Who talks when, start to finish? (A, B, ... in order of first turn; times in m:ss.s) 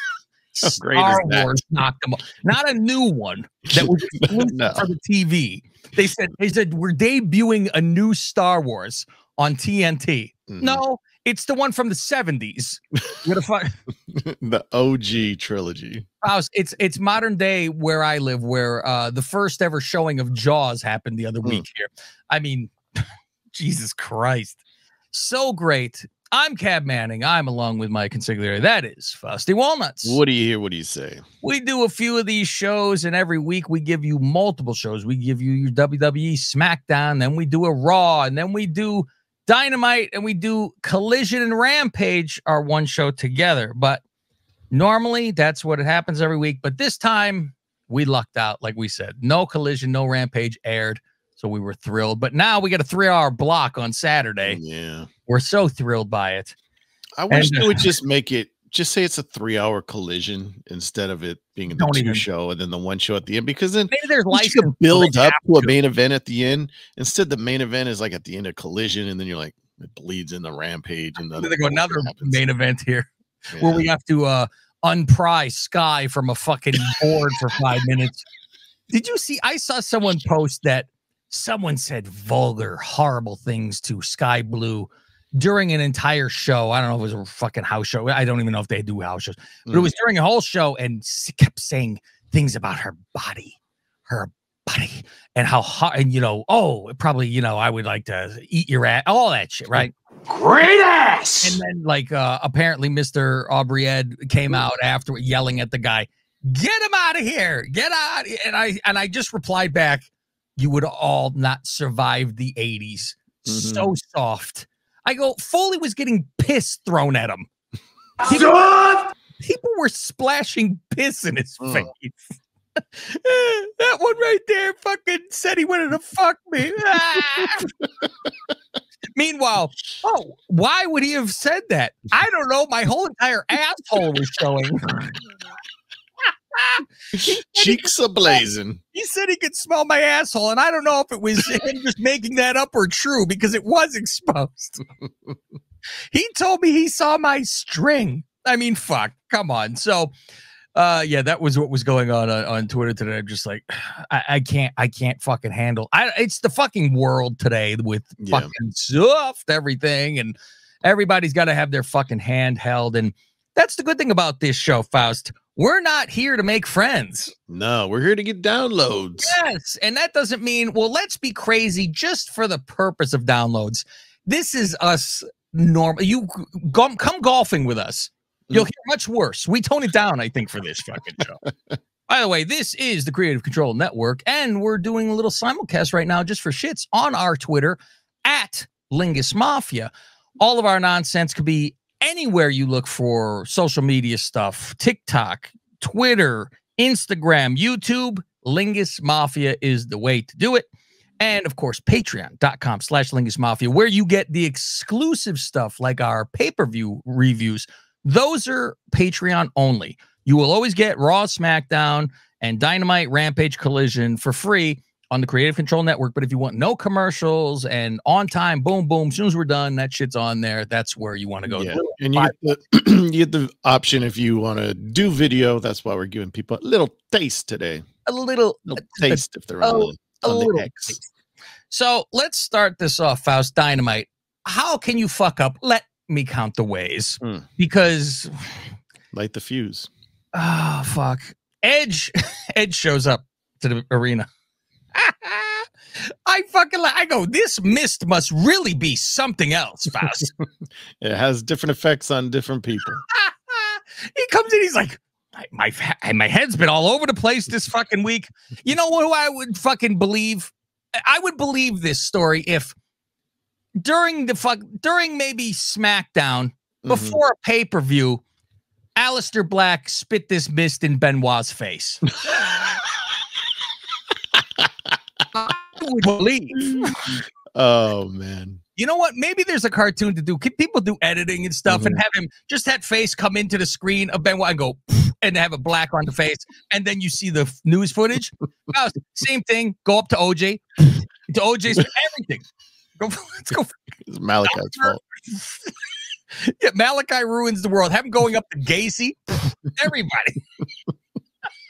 0:00.6-0:13.7 A
0:00.6-0:01.6 B
0:03.7-0:04.9 B
0:10.5-0:10.8 B
0:14.1-0:16.0 B
0:16.2-0:22.7 A
0:23.5-0:24.6 A
0:25.1-0:30.2 A
0:30.0-0:31.2 B
0:31.4-0:44.0 A
0:44.7-0:54.6 A
0:54.4-0:55.1 B
0:55.3-0:56.6 A
0:57.2-1:12.4 B
0:57.3-0:57.9 A
1:01.7-1:02.2 A
1:03.9-1:05.8 A
1:11.4-1:18.2 A
1:13.5-1:13.9 B
1:18.9-1:39.9 A
1:29.7-1:29.9 B
1:40.3-1:41.6 C
1:41.4-1:57.5 A
1:53.5-1:53.9 B
1:58.2-1:58.8 A
1:58.3-1:59.0 C
1:59.4-2:02.2 A
2:01.6-2:01.9 B
2:03.0-2:07.7 A
2:09.2-2:15.3 A
2:16.5-2:24.8 A
2:17.1-2:18.8 B
2:26.1-2:30.1 A
2:30.8-2:47.3 A
2:38.2-2:38.5 B
2:47.5-2:49.4 B
2:49.2-3:01.4 A
3:02.1-3:42.3 A
3:41.5-3:47.8 B
3:48.1-3:51.1 A
3:48.7-3:51.0 B
3:51.7-3:58.3 A
3:57.2-3:57.5 B
3:59.1-3:59.9 B
4:00.4-4:04.3 A
4:04.9-4:10.3 A
4:11.0-4:13.0 B
4:13.0-4:20.5 A
4:21.0-4:22.8 A
4:23.8-4:28.2 A
4:26.8-4:27.2 B
4:29.0-4:32.0 A
4:35.3-4:37.0 A
4:36.6-4:38.6 B
4:38.8-4:52.5 A
4:41.7-4:42.0 B
4:53.0-4:53.8 A
4:54.1-4:55.0 B
4:54.4-4:55.7 A
4:56.4-5:00.4 A